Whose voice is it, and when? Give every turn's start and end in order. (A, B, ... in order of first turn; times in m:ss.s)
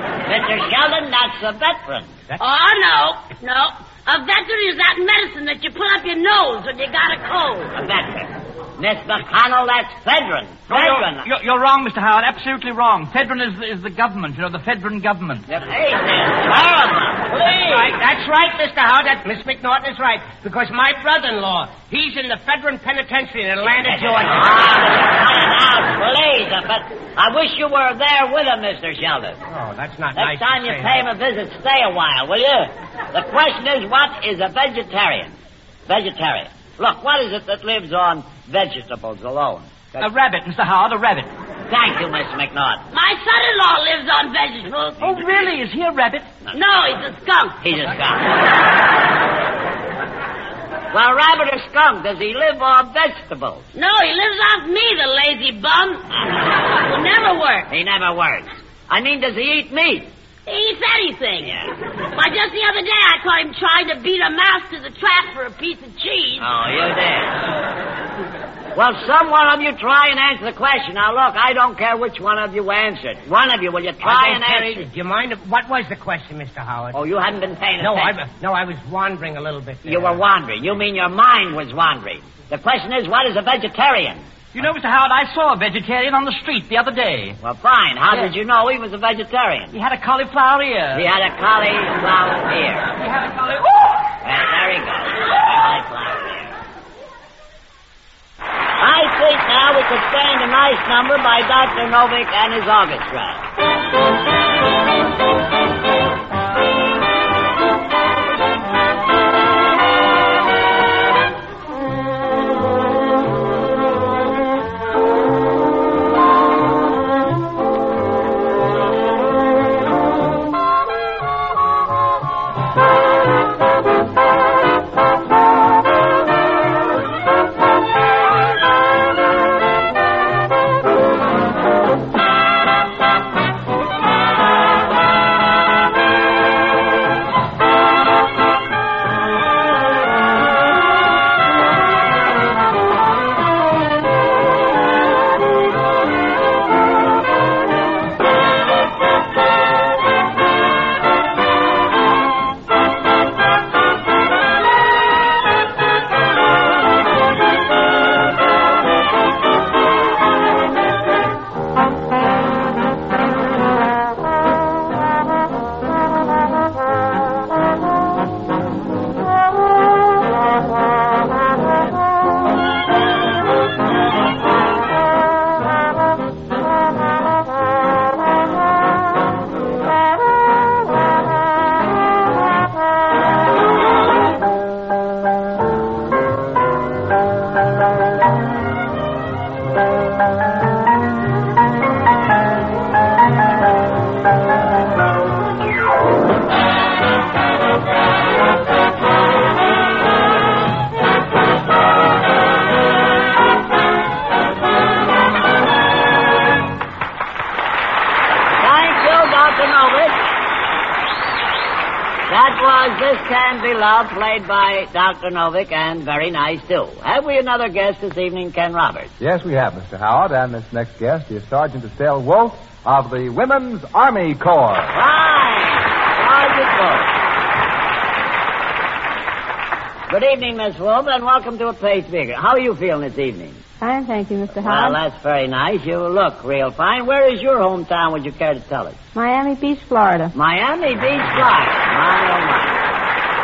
0:00.3-0:02.1 A
0:02.4-0:07.7 B
0:07.7-0:11.3 A
0:10.7-0:15.4 C
0:15.5-0:18.0 A
0:17.4-0:24.5 D
0:23.8-0:29.4 A
0:29.5-0:31.0 D
0:30.2-0:35.4 A
0:35.9-0:40.1 A
0:40.0-0:41.3 C
0:41.7-0:42.8 A
0:42.9-0:45.2 B
0:45.0-0:46.3 C
0:46.5-0:47.6 B
0:47.6-0:48.4 A
0:50.9-0:53.7 A
0:53.8-0:56.0 B
0:56.1-0:56.4 A
0:56.7-0:57.7 B
0:57.7-1:00.1 A
1:00.5-1:01.5 B
1:01.4-1:01.7 A
1:02.1-1:06.5 B
1:06.4-1:07.4 A
1:08.8-1:14.9 A
1:14.0-1:17.0 D
1:16.9-1:18.2 A
1:17.8-1:20.2 D
1:19.8-1:24.2 A
1:24.5-1:27.4 C
1:27.4-1:29.7 A
1:29.7-1:31.1 C
1:30.9-1:32.9 A
1:33.0-1:34.0 C
1:34.2-1:36.6 A
1:38.8-1:43.4 A
3:28.6-3:30.2 A
3:32.3-3:39.1 A
3:39.2-3:44.9 E
3:44.9-3:47.1 A
3:50.1-3:53.6 A
3:53.8-3:55.0 F
3:54.6-3:59.0 A
3:59.2-4:00.3 F
4:00.4-4:02.8 A